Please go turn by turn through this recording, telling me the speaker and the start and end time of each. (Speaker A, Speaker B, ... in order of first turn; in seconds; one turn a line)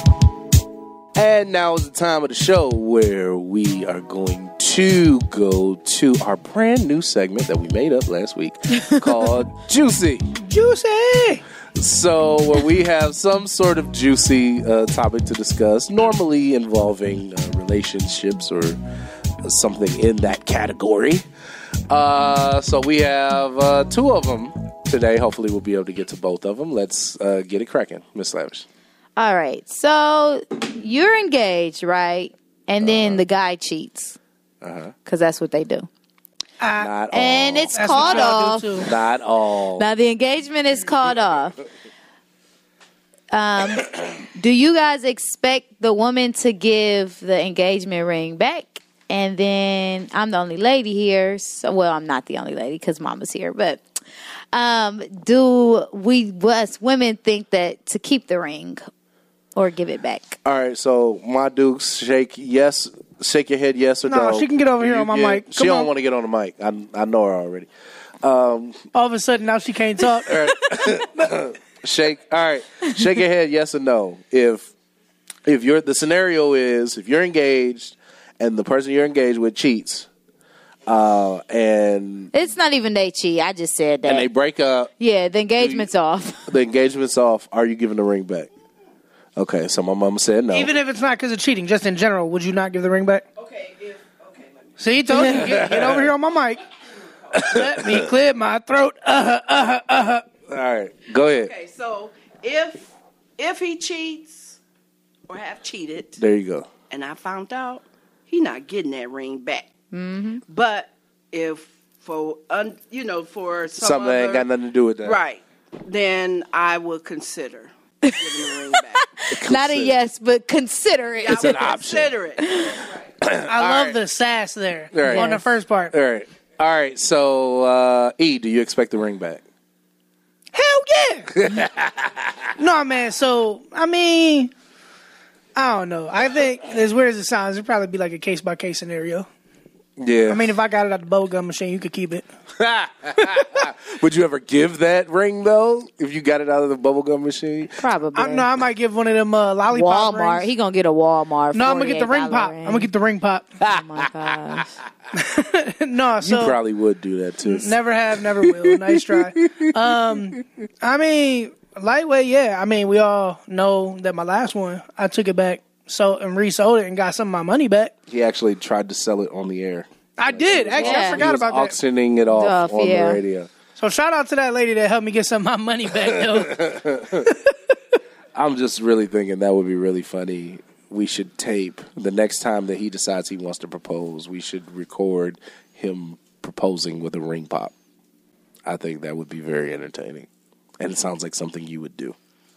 Speaker A: 1.1-10.2
Speaker B: 10.4-11.4
Speaker A: 11.8-18.8
Speaker A: 19.4-21.2
Speaker A: 21.9-28.6
Speaker C: 29.1-34.2
Speaker A: 32.8-33.2
Speaker A: 34.6-34.9
Speaker C: 35.0-35.9
Speaker B: 36.6-36.9
Speaker A: 36.8-39.9
Speaker C: 37.1-38.8
Speaker B: 37.7-38.9
Speaker C: 39.7-41.6
Speaker C: 43.3-53.8
Speaker C: 54.5-58.8
Speaker C: 59.5-60.4
Speaker A: 60.4-67.7
Speaker B: 64.1-65.9
Speaker A: 68.2-68.8
Speaker B: 68.9-70.4
Speaker A: 70.2-74.7
Speaker A: 75.5-80.1
Speaker A: 80.8-82.3
Speaker C: 82.3-84.3
Speaker A: 84.0-84.9
Speaker C: 85.0-86.5
Speaker A: 85.6-85.9
Speaker A: 86.5-88.5
Speaker A: 89.3-90.7
Speaker B: 90.5-93.2
Speaker D: 93.4-94.7
Speaker B: 94.8-96.6
Speaker A: 95.2-96.1
Speaker A: 97.3-98.0
Speaker B: 97.5-100.2
Speaker A: 100.5-101.5
Speaker D: 101.4-104.6
Speaker D: 105.3-106.2
Speaker A: 106.2-106.7
Speaker D: 106.9-109.7
Speaker C: 109.9-110.4
Speaker D: 110.5-114.5
Speaker A: 113.8-115.2
Speaker D: 115.0-119.0
Speaker C: 118.9-121.7
Speaker A: 119.3-120.0
Speaker D: 121.2-122.5
Speaker A: 121.3-122.1
Speaker C: 122.4-122.9
Speaker A: 123.2-124.0
Speaker B: 123.5-125.9
Speaker A: 124.9-129.4
Speaker C: 125.0-125.4
Speaker B: 130.5-131.3
Speaker A: 131.3-132.3
Speaker B: 132.6-134.5
Speaker B: 135.5-139.2
Speaker A: 140.0-140.5
Speaker B: 140.3-142.2
Speaker A: 142.6-147.8
Speaker C: 147.8-148.5
Speaker B: 148.1-150.5
Speaker C: 149.7-152.9
Speaker B: 151.5-153.5
Speaker C: 153.6-154.7
Speaker A: 153.7-154.6
Speaker B: 155.1-156.6
Speaker A: 156.2-158.2
Speaker B: 157.4-167.9
Speaker A: 158.8-159.7
Speaker A: 168.1-173.5
Speaker B: 170.2-171.7
Speaker C: 170.8-171.2
Speaker C: 172.3-173.2
Speaker B: 173.8-176.7
Speaker A: 176.1-177.3
Speaker A: 178.3-187.7
Speaker A: 188.7-190.3
Speaker A: 190.8-192.2